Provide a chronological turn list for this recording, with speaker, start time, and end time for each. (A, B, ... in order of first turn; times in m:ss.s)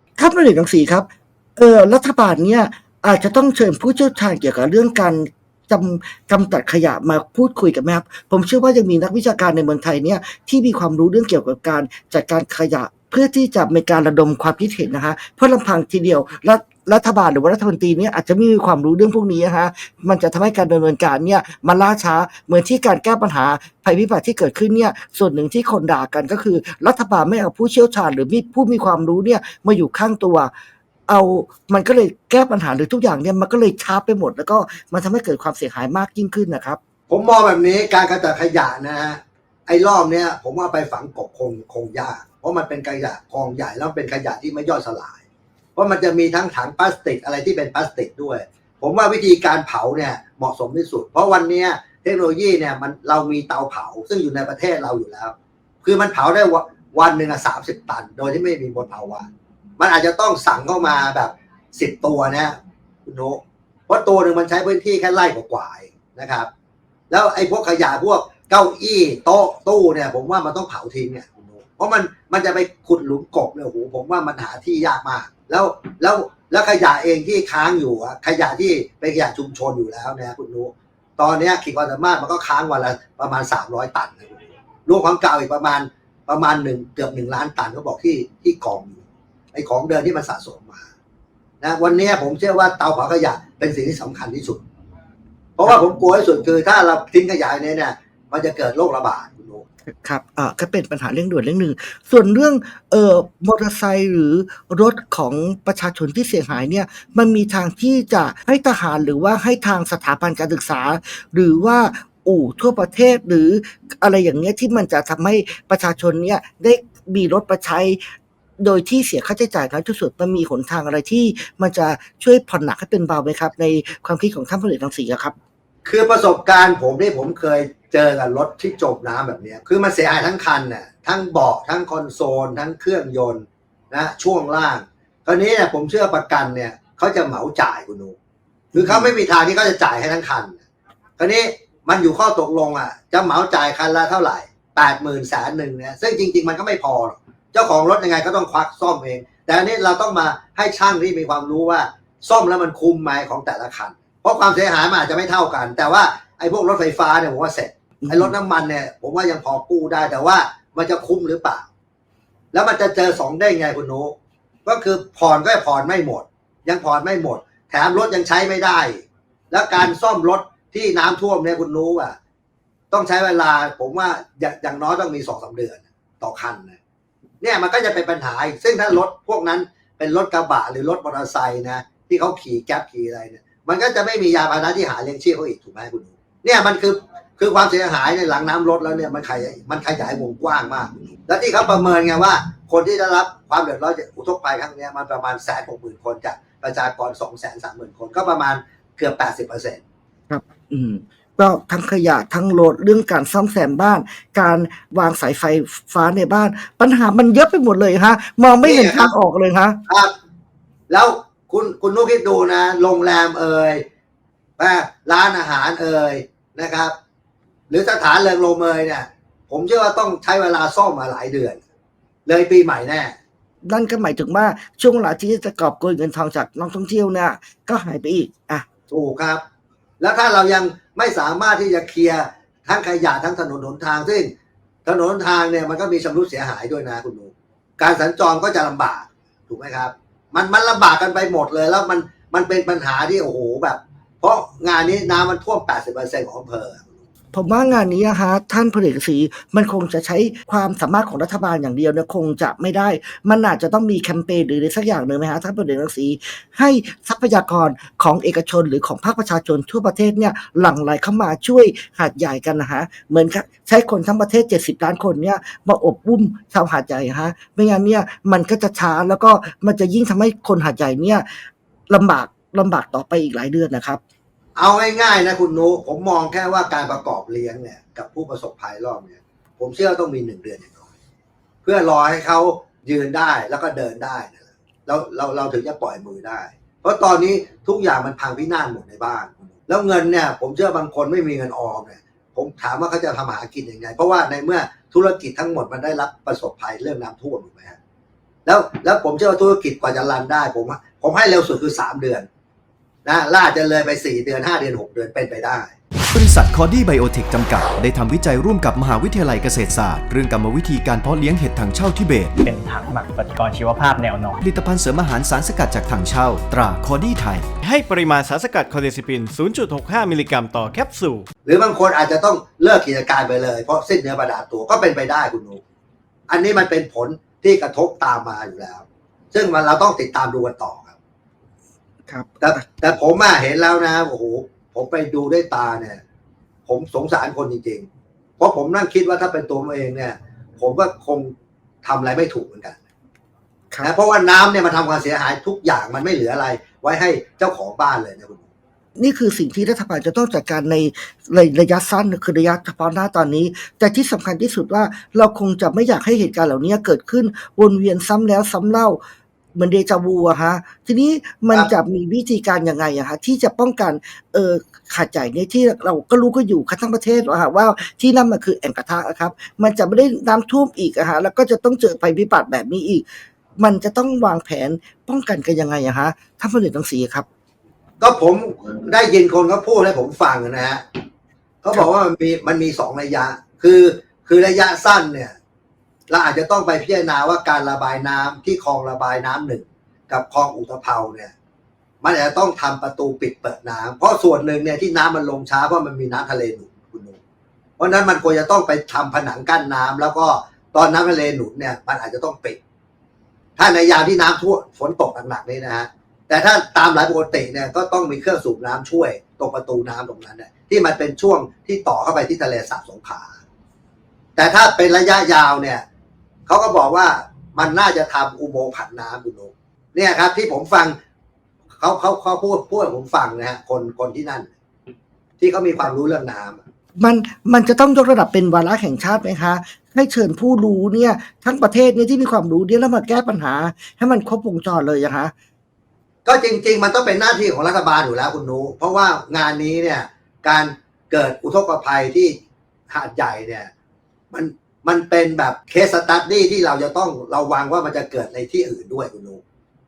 0:00.2-0:30.5 A
0:31.1-0:36.8 A
0:37.1-0:45.2 B
0:45.8-0:59.3 B
0:59.8-1:06.5 B
1:07.1-1:30.8 B
1:31.6-1:34.6 B
1:35.6-1:39.6 B
1:39.9-1:58.0 A
1:58.6-2:05.4 A
2:05.9-2:18.2 B
2:18.7-2:19.1 A
2:18.8-2:20.6 B
2:21.2-2:41.7 B
2:38.0-2:38.3 A
2:42.5-2:44.2 B
2:44.7-2:52.2 B
2:52.9-2:56.8 B
2:57.4-3:19.8 B
3:20.3-3:29.8 A
3:28.6-3:29.1 B
3:30.9-3:33.8 B
3:34.6-3:36.9 B
3:37.7-3:41.6 B
3:42.3-3:43.2 B
3:43.6-3:48.7 A
3:48.9-3:49.4 B
3:50.0-3:54.3 B
3:54.9-4:06.9 B
4:07.3-4:31.2 A
4:31.9-4:34.0 A
4:34.6-4:40.8 B
4:41.6-4:57.8 B
4:58.5-5:02.3 B
5:03.0-5:05.7 B
5:06.1-5:12.4 C
5:12.4-5:14.4 D
5:14.4-5:17.5 C
5:17.6-5:21.3 E
5:21.5-5:25.6 B
5:26.3-5:30.9 B
5:32.1-5:32.6 A
5:32.4-5:36.0 B
5:36.7-5:37.9 B
5:38.4-5:41.3 B
5:41.8-5:42.8 B
5:43.8-5:48.4 B
5:49.0-5:59.0 A
5:59.6-6:13.0 A
6:13.6-6:17.3 A
6:18.0-6:20.8 B
6:21.6-6:25.4 B
6:26.1-6:31.3 B
6:32.0-6:37.2 B
6:37.8-6:42.6 B
6:43.6-6:53.4 B
6:54.4-6:55.8 B
6:56.5-7:01.0 B
7:01.8-7:04.5 B
7:05.4-7:06.6 B
7:07.0-7:15.3 A
7:16.3-7:22.4 B
7:22.9-7:23.7 B
7:24.3-7:29.4 B